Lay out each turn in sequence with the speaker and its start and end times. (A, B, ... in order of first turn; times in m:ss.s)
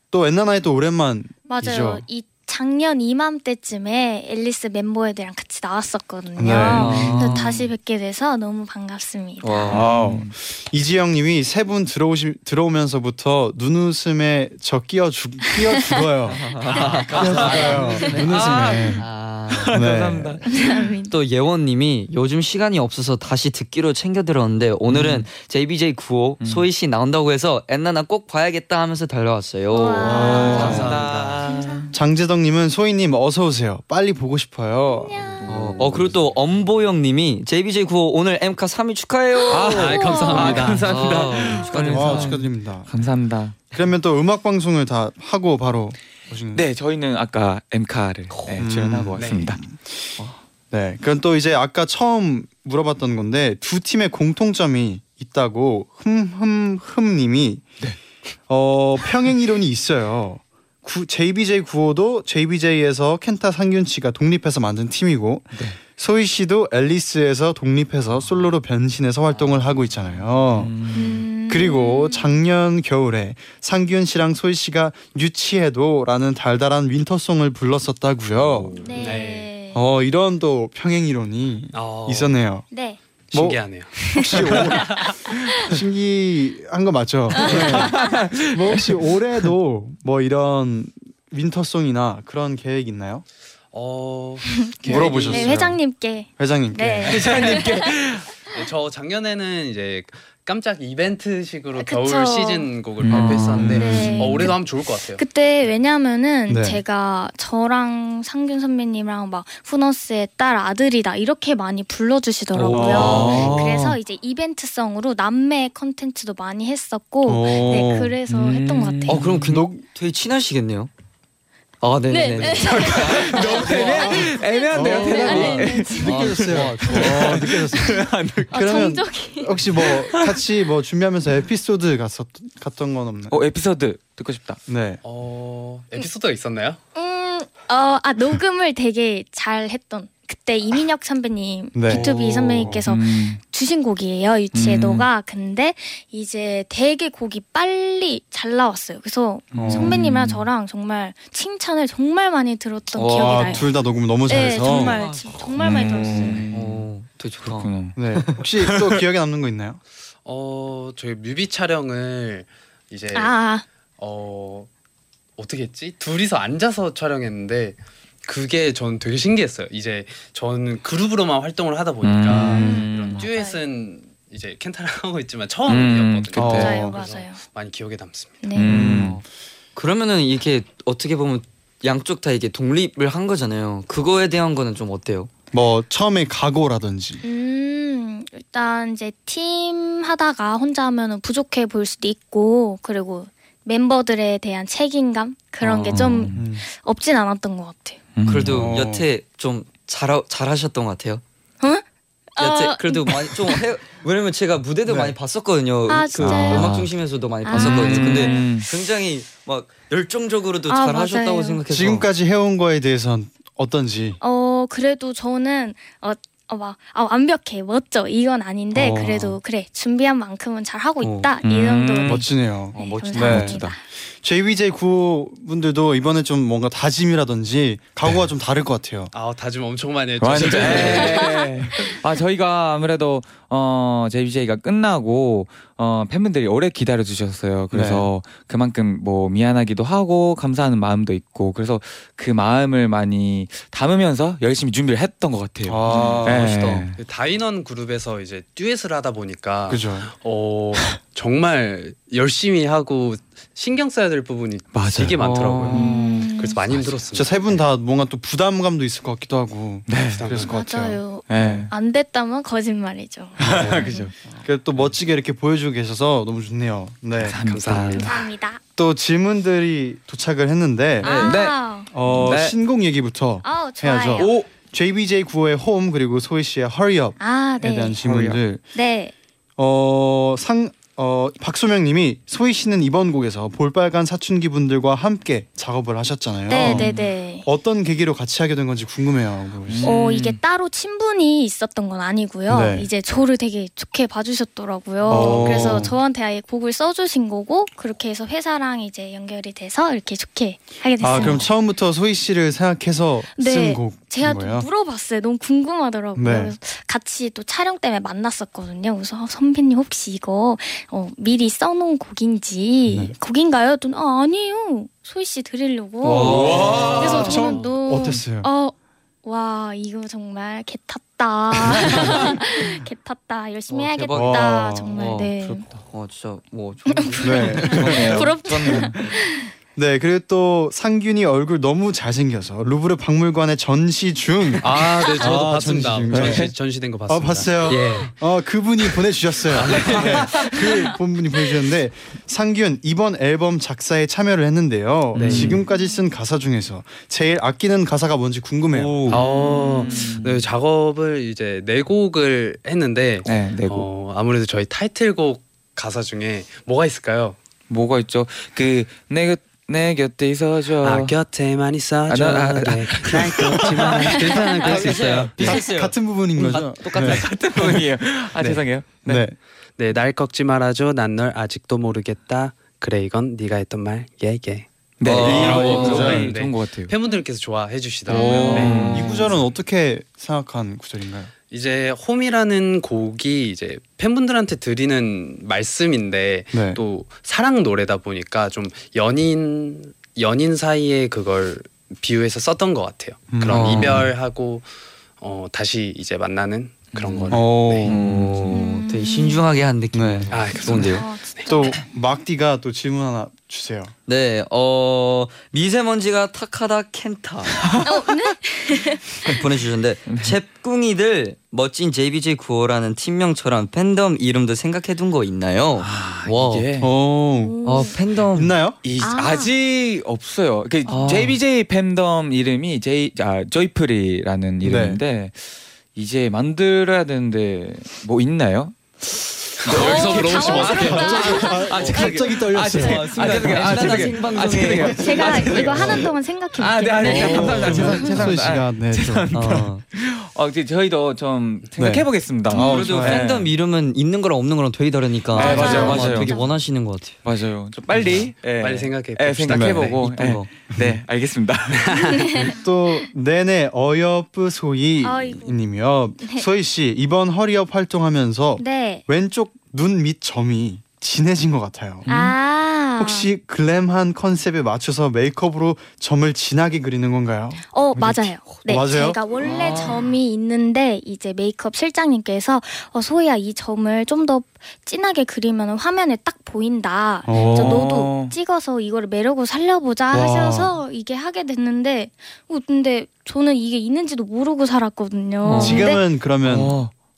0:00.1-0:02.0 A
0:01.5-0:09.8 B
0:06.4-0:07.4 A
0:06.6-0:07.6 C
0:06.8-0:07.2 D
0:09.4-0:09.8 C
0:09.7-0:16.5 A
0:09.7-0:10.3 D
0:16.3-0:19.8 C
0:16.7-0:20.7 D
0:17.1-0:19.0 A
0:17.2-0:17.7 E
0:17.4-0:18.9 B
0:19.7-0:20.4 A
0:20.5-0:21.1 B
0:20.5-0:31.0 C
0:24.9-0:25.3 D
0:26.4-0:26.7 D
0:29.7-0:30.9 B
0:30.0-0:31.9 D
0:30.2-0:31.0 A
0:30.5-0:31.3 E
0:31.4-0:31.9 B
0:31.9-0:35.4 A
0:35.0-0:35.5 B
0:35.4-0:42.4 C
0:35.6-0:36.1 D
0:39.4-0:40.6 B
0:39.4-0:43.6 D
0:39.6-0:41.6 E
0:41.9-0:42.9 A
0:43.7-0:46.6 A
0:46.5-0:49.6 D
0:48.3-0:48.7 C
0:48.6-0:50.1 A
0:49.2-0:49.5 E
0:50.7-0:57.7 A
0:58.5-1:10.7 A
1:05.5-1:05.8 D
1:10.5-1:11.2 D
1:10.9-1:12.3 B
1:11.5-1:18.7 A
1:18.5-1:19.5 E
1:18.8-1:19.8 B
1:19.7-1:22.7 A
1:21.7-1:22.4 E
1:22.7-1:23.0 B
1:23.3-1:25.1 E
1:23.3-1:33.2 A
1:24.1-1:24.6 B
1:27.4-1:28.1 B
1:27.4-1:28.9 D
1:33.7-1:35.6 E
1:34.6-1:38.0 B
1:34.8-1:35.8 A
1:36.4-1:37.5 A
1:37.1-1:38.2 D
1:37.1-1:37.6 E
1:38.5-1:45.2 E
1:41.8-1:42.7 B
1:43.0-1:44.5 D
1:43.1-1:43.7 C
1:43.5-1:44.4 A
1:43.7-1:59.2 B
1:46.5-1:46.8 A
1:52.6-1:54.0 A
1:52.7-1:53.7 C
1:53.0-1:53.4 D
1:57.2-1:58.1 A
1:58.3-1:59.4 D
1:59.1-2:00.9 C
1:59.4-1:59.8 A
2:01.8-2:03.8 C
2:02.1-2:07.1 B
2:02.4-2:08.6 D
2:03.8-2:13.4 A
2:05.2-2:07.4 C
2:08.5-2:09.6 B
2:09.8-2:10.4 D
2:13.3-2:14.6 D
2:14.7-2:15.0 A
2:15.0-2:16.8 E
2:16.9-2:33.7 B
2:21.7-2:22.8 A
2:21.9-2:23.4 D
2:24.5-2:25.1 D
2:29.5-2:30.0 A
2:29.5-2:30.4 D
2:32.9-2:33.6 C
2:33.1-2:35.0 A
2:34.2-2:36.4 B
2:34.4-2:35.6 C
2:35.6-2:36.9 D
2:36.5-2:37.7 C
2:37.4-2:38.0 D
2:37.9-2:39.8 A
2:38.6-2:39.0 D
2:40.2-2:43.4 E
2:43.1-2:43.6 B
2:44.0-2:44.7 E
2:45.4-2:58.4 E
2:52.0-2:53.3 D
2:52.3-2:53.6 B
2:55.7-2:56.8 D
2:56.3-2:57.0 A
2:56.5-2:57.4 B
2:58.4-2:58.7 B
2:58.5-2:59.2 D
2:58.6-2:59.2 A
2:58.8-2:59.2 C
2:59.8-3:05.3 C
3:05.5-3:07.2 A
3:07.2-3:18.0 B
3:15.6-3:16.0 C
3:15.9-3:16.4 D
3:16.3-3:16.6 A
3:18.1-3:18.8 D
3:18.2-3:21.2 C
3:18.4-3:19.1 A
3:22.3-3:23.6 B
3:22.4-3:32.0 C
3:24.8-3:25.2 A
3:25.9-3:26.8 B
3:26.2-3:26.9 D
3:27.4-3:28.5 B
3:27.5-3:28.7 D
3:30.7-3:31.6 B
3:31.7-3:34.2 A
3:34.2-3:43.8 B
3:38.7-3:39.4 A
3:41.0-3:41.3 C
3:41.4-3:43.8 D
3:42.0-3:49.1 A
3:49.1-3:51.4 E
3:50.2-4:07.0 D
3:50.5-3:50.9 A
3:50.7-3:52.0 B
3:57.7-3:58.1 A
4:05.6-4:06.6 A
4:06.4-4:06.8 C
4:07.0-4:17.3 E
4:09.7-4:10.1 A
4:14.7-4:15.9 D
4:15.7-4:16.2 A
4:15.7-4:16.6 B
4:16.7-4:17.0 D
4:17.1-4:21.6 A
4:19.9-4:20.3 D
4:20.1-4:20.5 E
4:20.5-4:24.1 B
4:21.3-4:21.7 D
4:23.4-4:24.1 D
4:23.4-4:23.8 A
4:24.4-4:27.4 A
4:27.2-4:28.2 D
4:27.4-4:28.1 E
4:27.9-4:28.6 B
4:28.8-4:31.2 A
4:31.0-4:31.9 B
4:31.0-4:31.4 C
4:31.2-4:32.6 D
4:31.9-4:38.6 A
4:33.4-4:34.3 B
4:34.1-4:34.5 D
4:37.2-4:38.0 B
4:38.0-4:38.4 D
4:38.7-4:39.1 B
4:39.6-4:49.9 A
4:46.5-4:47.4 B
4:46.5-4:47.1 D
4:49.7-4:50.4 D
4:49.8-5:01.5 B
4:52.5-4:52.9 A
4:55.1-4:56.0 A
4:55.1-4:55.9 D
5:01.0-5:04.7 A
5:01.2-5:01.4 D
5:03.4-5:25.6 B
5:06.2-5:06.5 A
5:12.9-5:13.1 A
5:16.0-5:17.2 C
5:16.0-5:18.5 A
5:16.1-5:17.6 D
5:23.7-5:28.3 C
5:24.1-5:25.0 A
5:27.0-5:29.5 B
5:27.2-5:28.2 A
5:27.6-5:29.1 D
5:29.7-5:36.5 A
5:34.6-5:38.1 E
5:36.1-5:36.5 D
5:37.1-5:49.2 A
5:39.5-5:40.4 E
5:39.8-5:40.5 D
5:45.1-5:45.6 D
5:45.1-5:45.6 E
5:45.7-5:46.0 B
5:48.8-5:49.2 C
5:49.0-5:50.5 D
5:49.1-5:57.4 E
5:53.2-5:53.9 D
5:57.7-6:01.1 D
6:00.8-6:05.6 E
6:02.1-6:04.4 D
6:03.4-6:03.9 A
6:03.9-6:07.9 C
6:04.8-6:07.3 A
6:06.9-6:09.2 D
6:08.4-6:08.6 E
6:09.0-6:09.4 A
6:09.8-6:19.3 E
6:15.0-6:16.9 D
6:15.0-6:16.3 C
6:15.1-6:16.3 A
6:18.1-6:18.9 B
6:18.2-6:21.3 A
6:18.3-6:19.3 D
6:21.5-6:34.7 E
6:26.5-6:26.8 A
6:33.3-6:34.1 A
6:33.5-6:34.1 C
6:35.2-6:37.9 E
6:36.9-6:38.4 D
6:37.3-6:38.5 A
6:37.8-6:41.0 C
6:38.5-6:39.4 B
6:39.9-6:40.9 A
6:40.3-6:41.5 E
6:40.8-6:41.8 B
6:41.4-6:43.9 A
6:44.1-6:47.8 C
6:47.8-6:49.4 B
6:49.2-6:56.7 C
6:50.0-6:50.4 D
6:55.8-6:56.9 D
6:56.8-6:58.8 A
6:57.4-6:58.0 B
6:57.6-6:58.6 C
6:58.8-7:05.4 D
6:59.0-6:59.5 B
7:00.8-7:01.4 C
7:04.6-7:05.0 A
7:05.9-7:08.8 D
7:09.6-7:23.5 D
7:09.6-7:11.3 E
7:09.7-7:12.2 B
7:10.3-7:13.9 A
7:12.7-7:16.0 C
7:15.0-7:18.1 B
7:17.0-7:19.7 A
7:19.3-7:19.8 C
7:21.8-7:23.3 A
7:22.5-7:22.8 B
7:22.5-7:27.2 C
7:25.3-7:26.5 D
7:25.3-7:26.5 B
7:27.2-7:32.2 D
7:28.0-7:28.3 A
7:28.0-7:30.0 E
7:29.5-7:30.0 A
7:30.0-7:30.5 C
7:30.7-7:31.0 A
7:31.7-7:32.5 E
7:32.0-7:32.5 B
7:32.4-7:42.1 A
7:35.0-7:35.6 B
7:38.6-7:39.0 B
7:42.0-7:42.3 D
7:42.1-7:43.3 B
7:42.9-7:49.2 A
7:47.7-8:06.0 B
7:49.4-7:50.0 C
7:57.2-7:57.8 A
7:57.3-7:58.3 D
8:00.1-8:00.8 A
8:05.4-8:05.9 C
8:05.6-8:06.8 A
8:06.4-8:06.9 D